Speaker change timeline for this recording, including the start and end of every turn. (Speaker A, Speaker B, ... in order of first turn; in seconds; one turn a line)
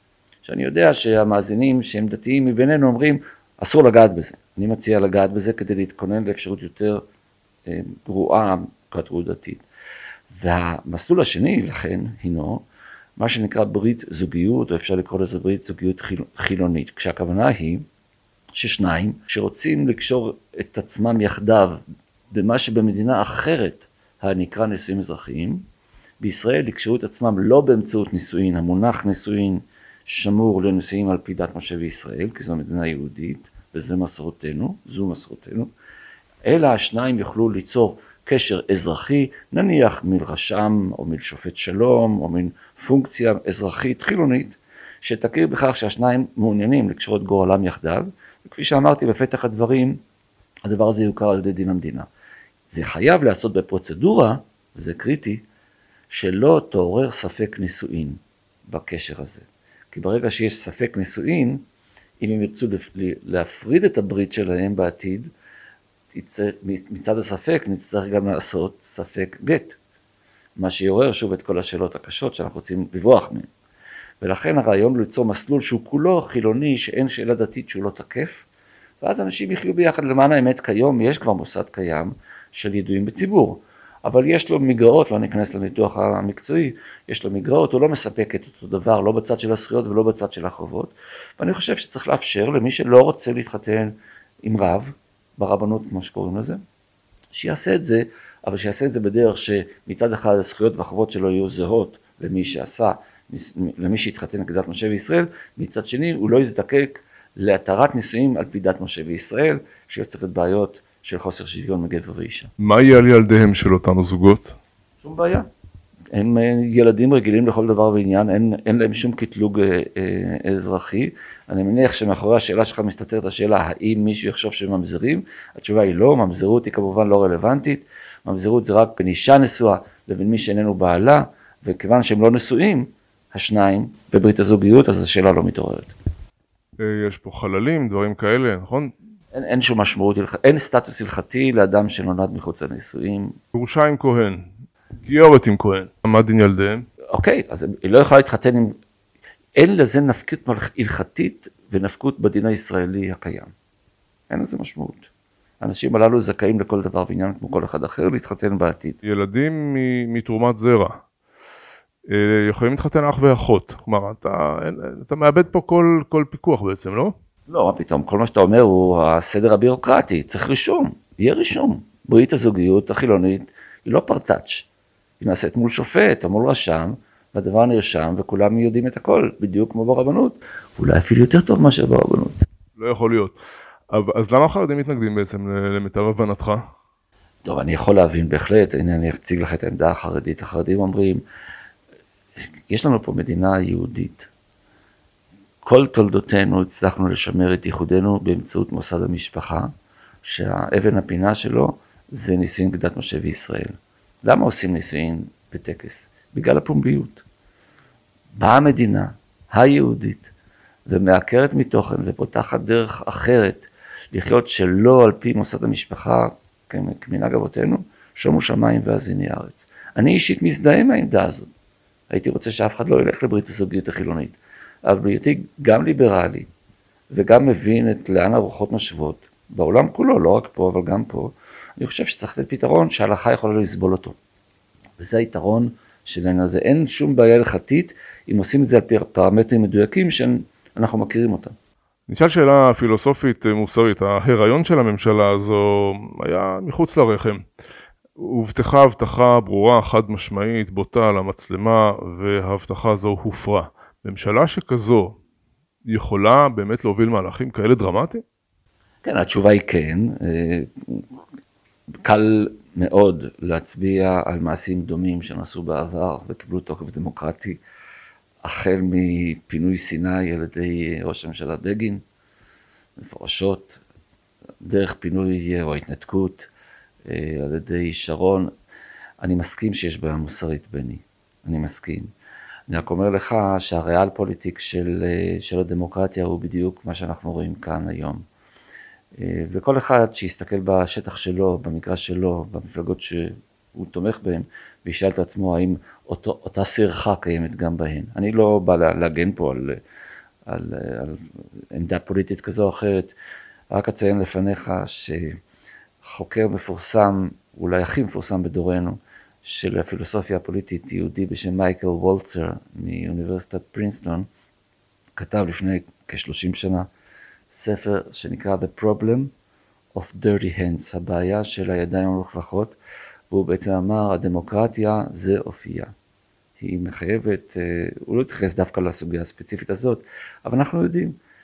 Speaker A: 0.4-7.0
Speaker A: 7.7-9.6
Speaker A: 10.3-12.6
Speaker A: 13.2-17.9
Speaker A: 18.6-25.6
Speaker A: 26.2-35.7
Speaker A: 36.4-50.0
Speaker A: 50.7-52.1
Speaker A: 52.7-55.4
Speaker A: 56.1-61.6
Speaker A: 62.2-65.3
Speaker A: 66.1-69.8
Speaker A: 70.6-73.5
Speaker A: 74.2-78.5
Speaker A: 79.0-96.6
Speaker A: 97.3-112.5
Speaker B: 112.6-114.6
Speaker A: 115.0-115.5
Speaker A: 116.1-135.9
Speaker B: 136.8-138.9
Speaker A: 139.3-143.4
Speaker B: 143.5-144.5
Speaker B: 145.0-146.9
Speaker A: 147.1-148.8
Speaker A: 149.6-153.5
Speaker A: 154.3-155.1
Speaker A: 155.6-159.0
Speaker B: 159.1-161.0
Speaker B: 162.1-167.2
Speaker A: 167.5-174.7
Speaker A: 175.2-182.4
Speaker B: 182.8-183.3
Speaker B: 183.9-186.6
Speaker A: 187.4-191.2
Speaker A: 192.7-194.3
Speaker A: 195.6-199.7
Speaker A: 200.2-207.2
Speaker A: 208.4-210.3
Speaker A: 210.9-221.5
Speaker A: 222.1-226.5
Speaker A: 227.1-234.2
Speaker A: 235.0-241.6
Speaker B: 242.1-247.4
Speaker B: 248.2-255.2
Speaker B: 255.8-258.2
Speaker A: 259.0-261.0
Speaker A: 262.0-267.6
Speaker A: 268.4-272.0
Speaker A: 273.0-273.8
Speaker A: 274.6-276.5
Speaker A: 277.1-278.5
Speaker A: 279.2-282.1
Speaker A: 282.7-288.2
Speaker A: 289.2-299.8
Speaker A: 300.5-303.1
Speaker A: 303.7-305.4
Speaker A: 306.0-314.3
Speaker A: 315.2-316.9
Speaker A: 317.5-319.3
Speaker A: 319.9-322.8
Speaker A: 323.3-325.9
Speaker A: 326.6-331.2